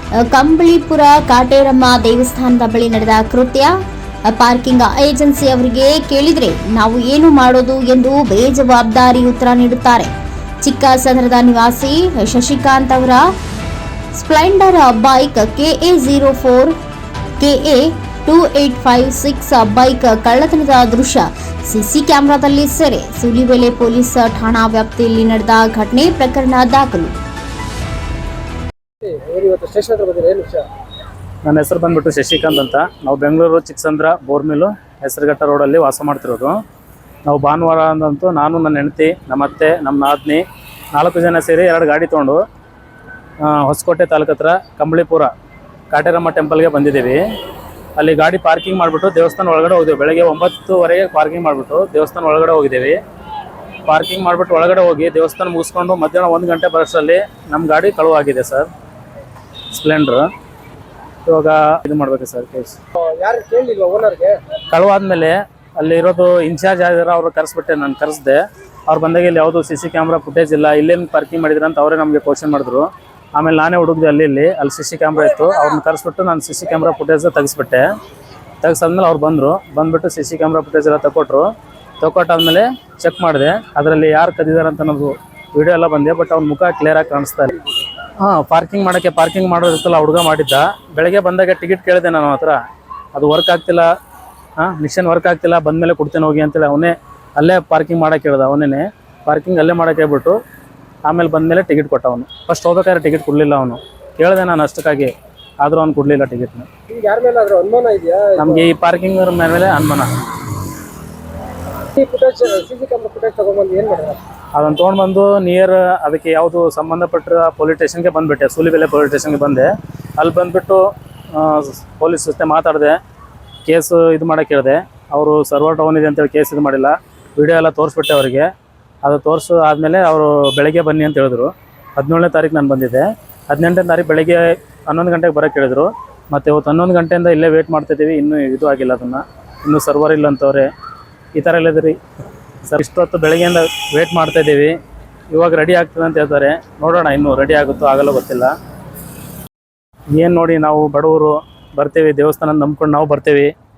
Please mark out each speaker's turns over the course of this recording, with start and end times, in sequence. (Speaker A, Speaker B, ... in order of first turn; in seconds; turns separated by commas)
Speaker A: 0.2-3.7, Speaker A: 4.3-10.1, Speaker A: 10.6-13.2, Speaker A: 14.1-16.7, Speaker A: 17.4-27.1, Speaker B: 29.0-30.6, Speaker C: 31.4-36.6, Speaker C: 37.2-40.4, Speaker C: 40.9-42.4, Speaker C: 43.4-45.3, Speaker C: 45.9-47.2, Speaker C: 48.0-53.0, Speaker C: 53.9-58.7, Speaker C: 59.7-60.3, Speaker C: 61.2-62.8, Speaker B: 63.0-64.4, Speaker C: 64.7-77.8, Speaker C: 78.6-81.5, Speaker C: 82.0-87.6, Speaker C: 88.2-92.6, Speaker C: 93.1-93.9, Speaker C: 94.6-100.4, Speaker C: 101.0-106.7, Speaker B: 106.9-108.6, Speaker C: 108.4-110.1, Speaker B: 111.9-114.2, Speaker C: 114.5-123.0, Speaker C: 123.7-128.5, Speaker C: 129.0-140.7, Speaker C: 141.3-142.0, Speaker C: 142.7-144.8, Speaker C: 145.3-148.5, Speaker C: 150.2-153.5